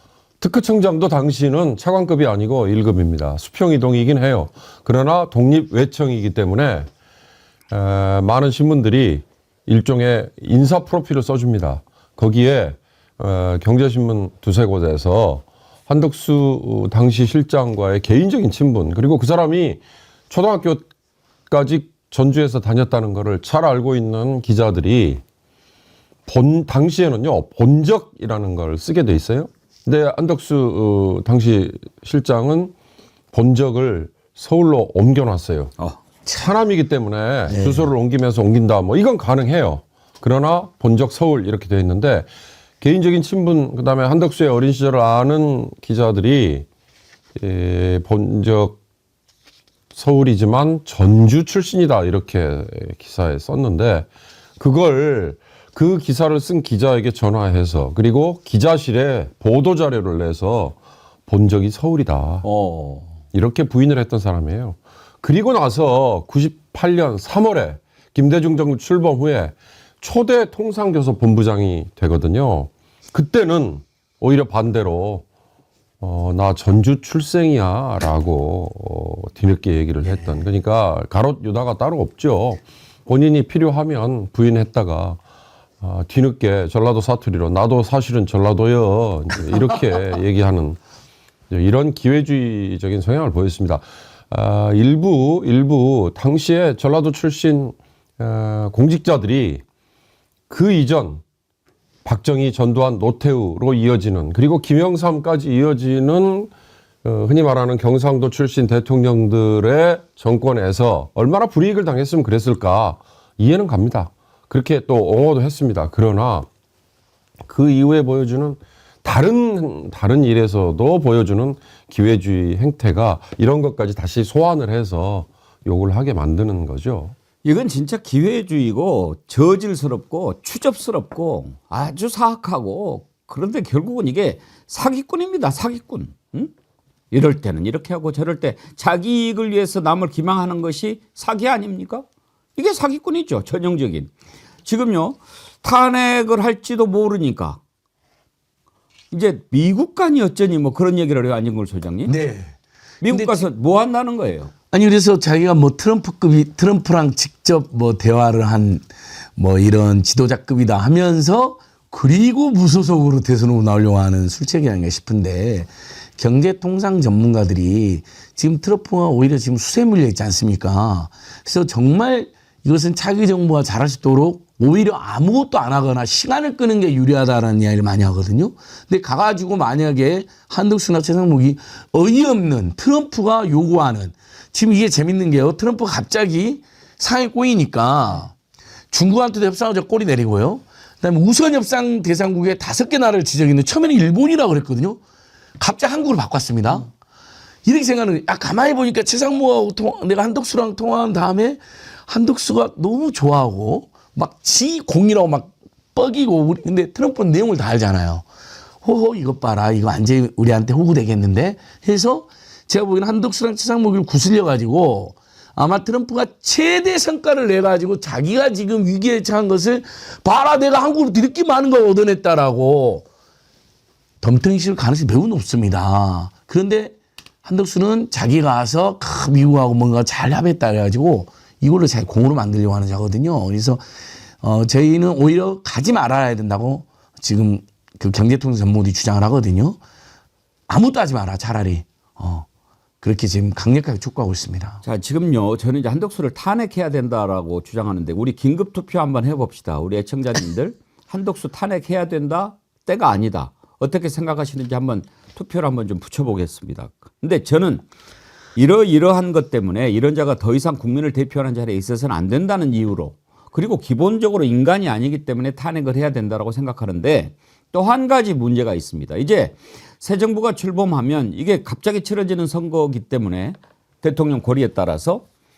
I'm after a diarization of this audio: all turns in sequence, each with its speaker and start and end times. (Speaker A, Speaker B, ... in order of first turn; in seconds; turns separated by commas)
Speaker A: 0.4-6.9, Speaker A: 7.7-20.9, Speaker A: 21.5-25.2, Speaker A: 26.3-32.7, Speaker A: 33.3-35.7, Speaker A: 36.3-42.3, Speaker B: 37.5-37.9, Speaker A: 42.8-46.7, Speaker A: 47.4-48.8, Speaker A: 49.9-54.1, Speaker A: 54.6-62.5, Speaker C: 62.4-63.1, Speaker A: 63.3-75.2, Speaker A: 76.0-85.2, Speaker B: 80.0-80.4, Speaker A: 85.8-90.8, Speaker A: 91.5-99.6, Speaker A: 100.5-101.2, Speaker A: 102.0-106.5, Speaker A: 107.0-116.5, Speaker A: 117.5-127.1, Speaker C: 127.4-136.5, Speaker C: 137.1-142.0, Speaker C: 142.6-144.1, Speaker C: 144.6-147.6, Speaker C: 149.1-152.1, Speaker B: 152.1-152.5, Speaker C: 153.0-154.5, Speaker B: 153.1-153.4, Speaker B: 154.7-158.8, Speaker B: 159.4-188.3, Speaker B: 188.9-195.0, Speaker B: 195.6-196.9, Speaker B: 197.6-208.2, Speaker B: 208.8-223.1, Speaker B: 224.2-233.8, Speaker B: 234.4-239.8, Speaker B: 240.7-242.5, Speaker B: 243.0-244.8, Speaker C: 244.8-257.9, Speaker C: 258.6-275.2